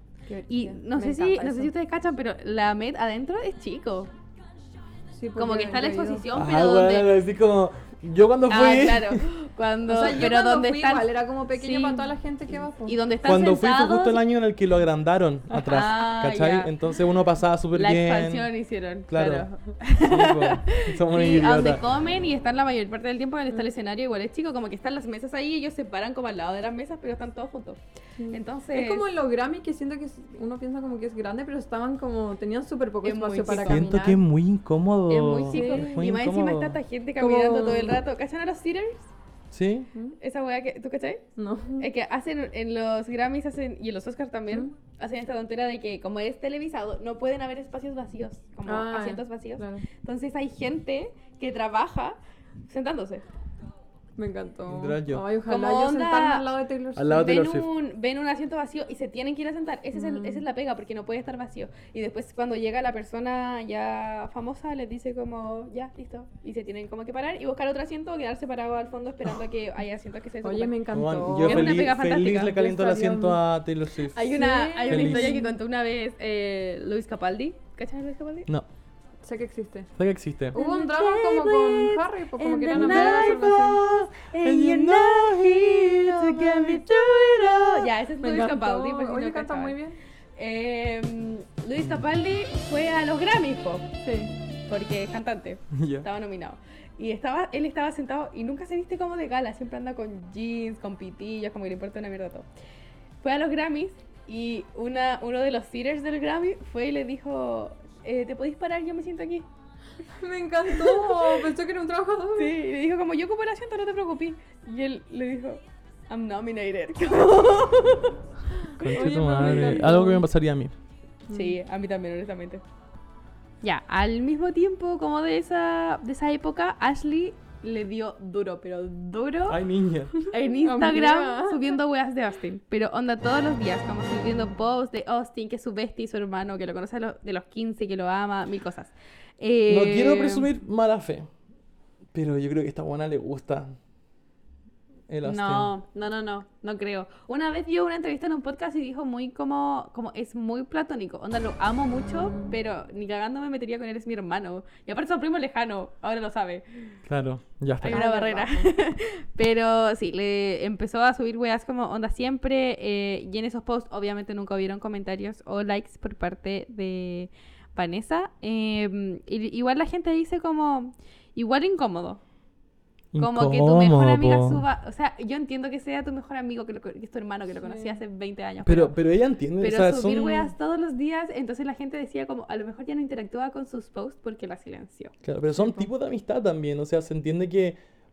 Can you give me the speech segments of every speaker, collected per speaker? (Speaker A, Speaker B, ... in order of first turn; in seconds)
Speaker A: 0.3-1.7, 5.1-6.2, 9.9-13.0, 28.2-34.2, 35.5-36.0, 37.1-38.0, 41.4-41.9, 48.6-49.8, 54.2-57.4, 59.9-60.4, 70.4-71.9, 72.5-73.4, 74.3-75.5, 79.2-79.9, 80.5-83.8, 88.2-90.0, 94.0-94.3, 110.1-112.6, 118.8-120.2, 121.3-121.6, 130.6-131.7, 134.1-134.5, 152.0-152.5, 157.9-158.7, 177.6-178.0, 185.6-185.8
Speaker B: 0.5-4.1, 5.4-7.2, 8.5-12.1, 12.8-14.2, 15.6-16.7, 17.7-27.8, 28.3-29.1, 33.0-33.9, 35.1-39.1, 40.2-41.2, 41.8-53.2, 55.5-56.4, 57.1-72.7, 74.1-78.5, 80.5-89.8, 90.4-93.9, 94.7-102.5, 103.2-109.5, 110.7-111.4, 112.3-118.2, 118.8-120.0, 121.3-122.6, 123.6-129.6, 130.2-140.5, 145.2-157.0, 157.8-172.2, 173.2-179.0, 179.6-185.1
Speaker C: 6.3-9.2, 13.2-18.5, 19.1-21.8, 33.5-36.8, 39.5-39.9, 54.7-55.2, 56.9-57.7, 70.9-75.4, 80.0-80.6, 82.7-87.9, 95.7-96.1, 118.8-120.7, 129.5-130.2, 139.7-141.3, 142.1-143.8, 145.1-145.7, 157.0-158.0, 173.1-174.7, 178.6-180.5, 185.2-187.8